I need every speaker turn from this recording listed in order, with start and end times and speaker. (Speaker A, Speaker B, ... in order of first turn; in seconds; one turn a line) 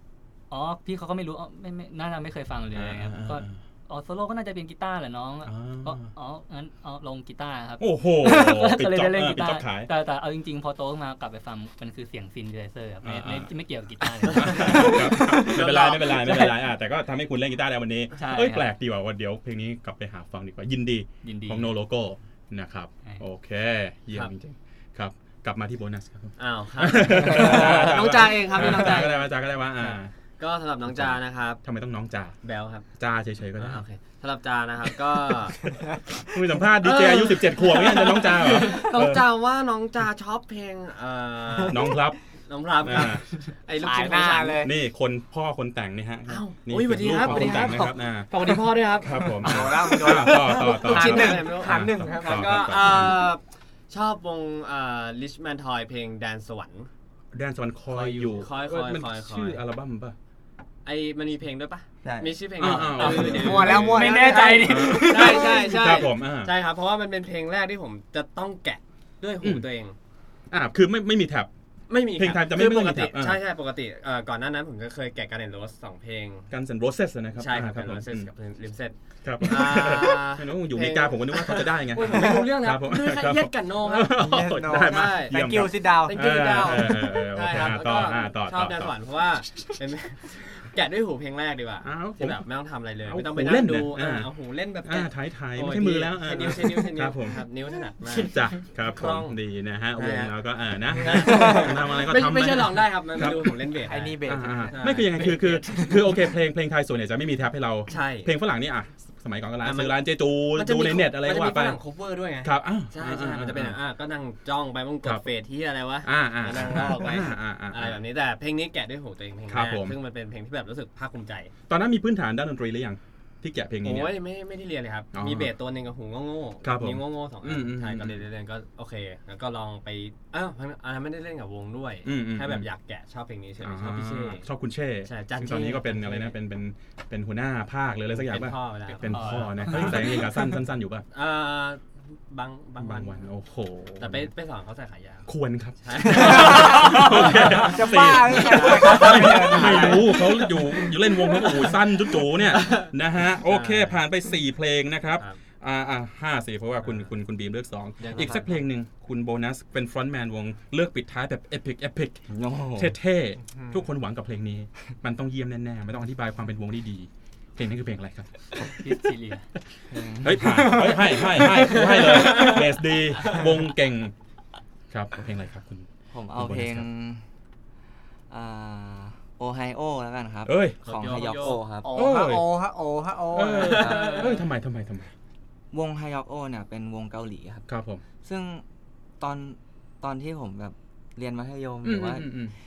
Speaker A: 0.5-16.6
Speaker B: 2.8-3.5
Speaker B: 5.5-6.1
Speaker B: 7.8-9.9
Speaker B: 13.0-13.5
Speaker B: 14.2-30.1
Speaker C: 14.7-15.6
Speaker A: 18.2-18.7
Speaker A: 21.2-21.7
Speaker D: 26.4-31.6
Speaker B: 30.9-32.4
Speaker D: 32.4-32.9
Speaker B: 33.0-33.8
Speaker D: 33.6-35.6
Speaker C: 35.7-36.0
Speaker B: 36.2-39.2
Speaker D: 36.8-41.8
Speaker C: 38.5-38.8
Speaker B: 41.7-42.2
Speaker D: 42.5-44.7
Speaker B: 42.8-43.2
Speaker C: 43.8-44.7
Speaker B: 44.6-48.3
Speaker D: 46.3-56.9
Speaker C: 47.1-47.9
Speaker B: 49.0-53.3
Speaker C: 49.2-52.7
Speaker B: 57.3-60.2
Speaker A: 58.0-58.3
Speaker D: 58.1-59.6
Speaker D: 60.9-70.0
Speaker E: 62.0-62.8
Speaker B: 62.6-64.1
Speaker C: 63.0-65.7
Speaker A: 63.8-65.5
Speaker B: 64.6-66.5
Speaker B: 70.5-71.5
Speaker D: 71.9-76.5
Speaker B: 72.1-73.4
Speaker B: 76.5-78.3
Speaker D: 77.4-84.2
Speaker B: 79.2-88.9
Speaker C: 82.1-82.5
Speaker C: 84.1-87.0
Speaker D: 84.7-85.5
Speaker D: 86.1-99.4
Speaker B: 91.8-92.4
Speaker B: 93.1-94.3
Speaker B: 94.8-97.4
Speaker B: 98.3-103.6
Speaker D: 100.0-100.3
Speaker D: 100.9-105.6
Speaker C: 101.2-101.6
Speaker C: 103.8-106.2
Speaker B: 104.2-111.8
Speaker D: 107.9-108.3
Speaker D: 109.6-110.0
Speaker D: 110.5-121.5
Speaker B: 112.4-113.8
Speaker B: 116.0-118.0
Speaker B: 119.5-120.0
Speaker B: 121.7-124.2
Speaker D: 123.8-134.5
Speaker B: 125.1-125.5
Speaker B: 126.6-128.2
Speaker B: 132.1-132.7
Speaker B: 133.6-141.1
Speaker D: 135.1-136.3
Speaker D: 138.1-140.2
Speaker A: 139.0-140.3
Speaker D: 141.1-143.2
Speaker B: 142.8-144.3
Speaker D: 144.0-145.3
Speaker B: 145.3-168.8
Speaker D: 145.8-147.7
Speaker C: 146.1-150.6
Speaker D: 148.3-151.8
Speaker C: 151.3-151.5
Speaker D: 152.4-154.0
Speaker D: 156.8-157.1
Speaker D: 158.0-158.6
Speaker E: 162.3-162.9
Speaker C: 163.5-163.8
Speaker A: 168.6-169.5
Speaker E: 169.9-170.8
Speaker B: 170.2-174.1
Speaker C: 170.6-172.6
Speaker D: 171.4-173.5
Speaker B: 174.9-176.8
Speaker E: 176.1-177.2
Speaker E: 178.3-182.0
Speaker B: 180.4-180.8
Speaker D: 180.8-181.6
Speaker C: 181.5-184.3
Speaker B: 181.9-182.5
Speaker B: 183.3-185.1
Speaker D: 183.5-184.4
Speaker E: 183.8-184.2
Speaker E: 185.7-187.7
Speaker B: 187.7-188.0
Speaker E: 188.2-188.6
Speaker E: 189.2-192.3
Speaker B: 191.8-192.5